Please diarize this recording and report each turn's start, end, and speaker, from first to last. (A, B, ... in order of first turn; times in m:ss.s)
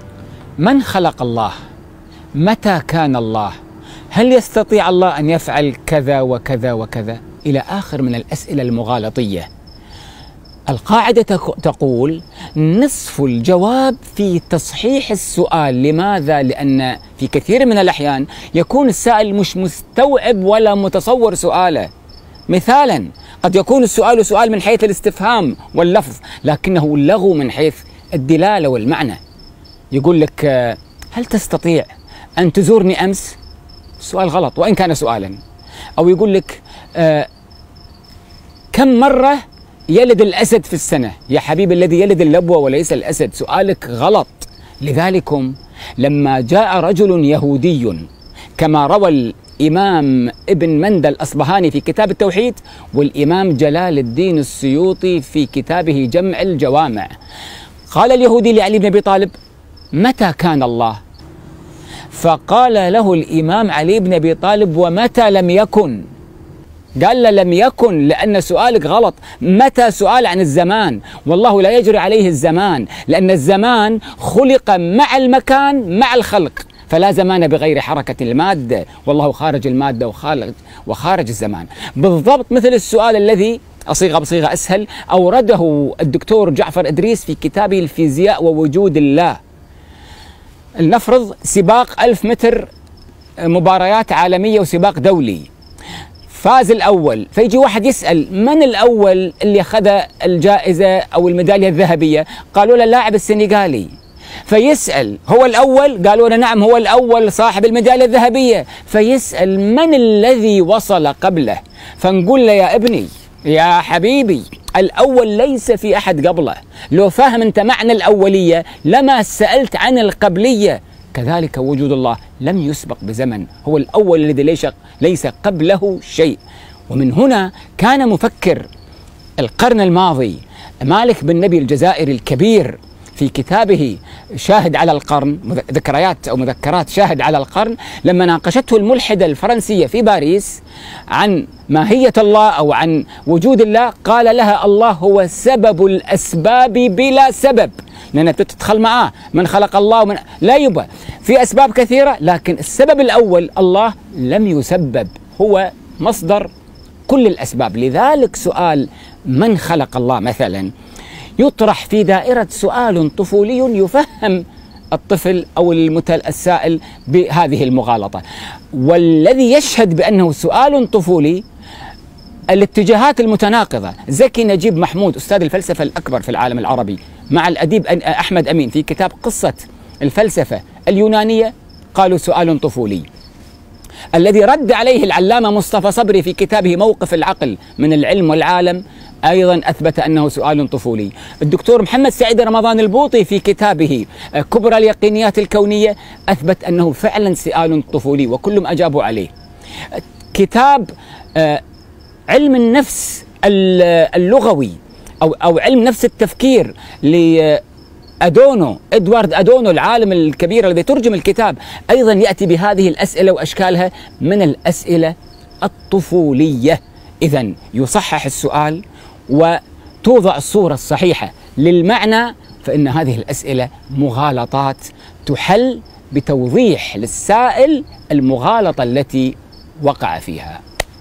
0:00.6-0:01.5 A
0:02.4-0:03.6 A
0:04.1-0:09.5 A
0:10.7-0:21.9 A
0:22.5-0:29.2 A
0:29.9-0:33.4 A
0:34.0-0:35.4 A
0:36.0-0:37.3 A
0:38.7-0:48.0 A
0:48.6-0:57.1 A
0:57.9-0:59.3 A
0:59.9-1:01.0 A
1:02.1-1:06.0 A
1:07.0-1:29.4 A
1:30.8-1:32.7 A
1:33.4-1:35.5 A
1:36.3-1:43.9 A
1:44.4-2:08.6 A
2:09.4-2:20.6 A
2:21.1-2:36.5 A
2:37.1-2:40.7 A
2:41.4-2:48.2 A
2:48.7-2:51.4 A
2:52.5-3:03.0 A
3:04.1-3:19.3 A
3:19.9-3:21.6 A
3:22.3-3:27.6 A
3:28.2-3:50.6 A